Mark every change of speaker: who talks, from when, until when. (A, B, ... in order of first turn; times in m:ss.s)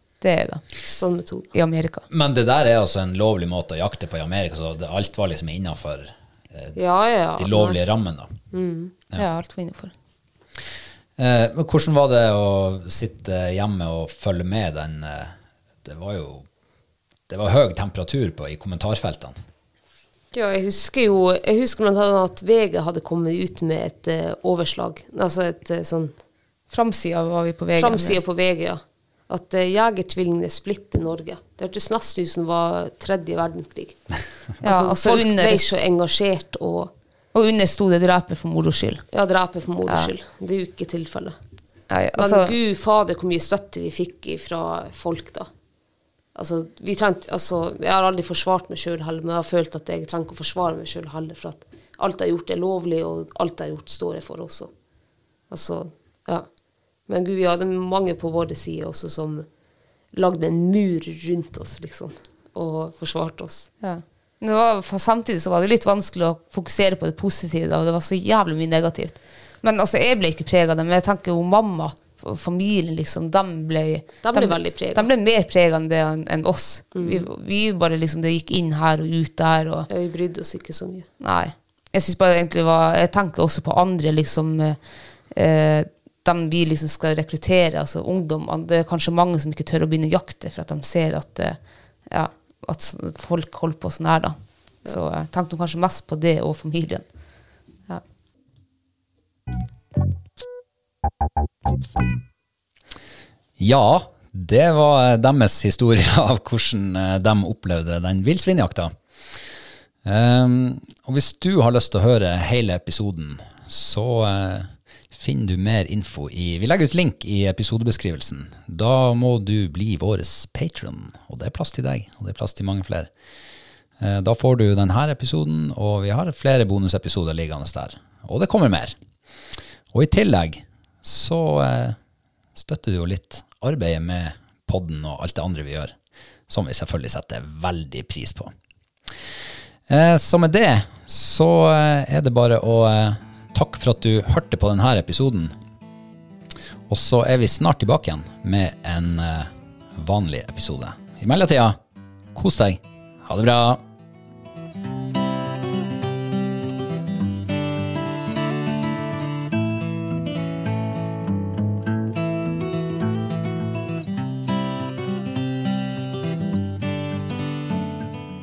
0:00.2-0:00.7 A
0:00.8-0:01.5 B
0:01.5-0:02.0 A
0:02.1-0:06.8 C
0:06.8-0:07.8 B
0:07.3-0:08.3 C
0:08.5-0:08.9 B
0:09.2-0:09.9 A
0:11.2-0:16.5 C
0:17.3-0:19.4 C
0:20.3-0:26.2 B
0:26.7-0:28.2 A
0:27.8-0:36.9 B
0:34.6-0:35.8 A
0:37.3-0:39.0 A
0:39.1-0:41.4 B
0:39.8-0:40.1 A
0:41.9-0:42.5 A
0:42.1-0:45.5 B
0:46.3-0:54.7 B
0:55.5-1:03.7 B
1:03.8-1:19.9 A
1:14.2-1:15.1 B
1:16.9-1:17.2 B
1:19.9-1:21.1 B
1:21.2-1:37.2 A
1:43.6-1:48.9 C
1:50.0-2:03.1 C
2:04.0-2:08.9 C
2:09.9-2:12.0 C
2:12.6-2:15.9 C
2:16.5-2:18.5 C
2:19.9-2:25.5 C
2:26.9-2:31.8 C
2:32.3-2:33.8 C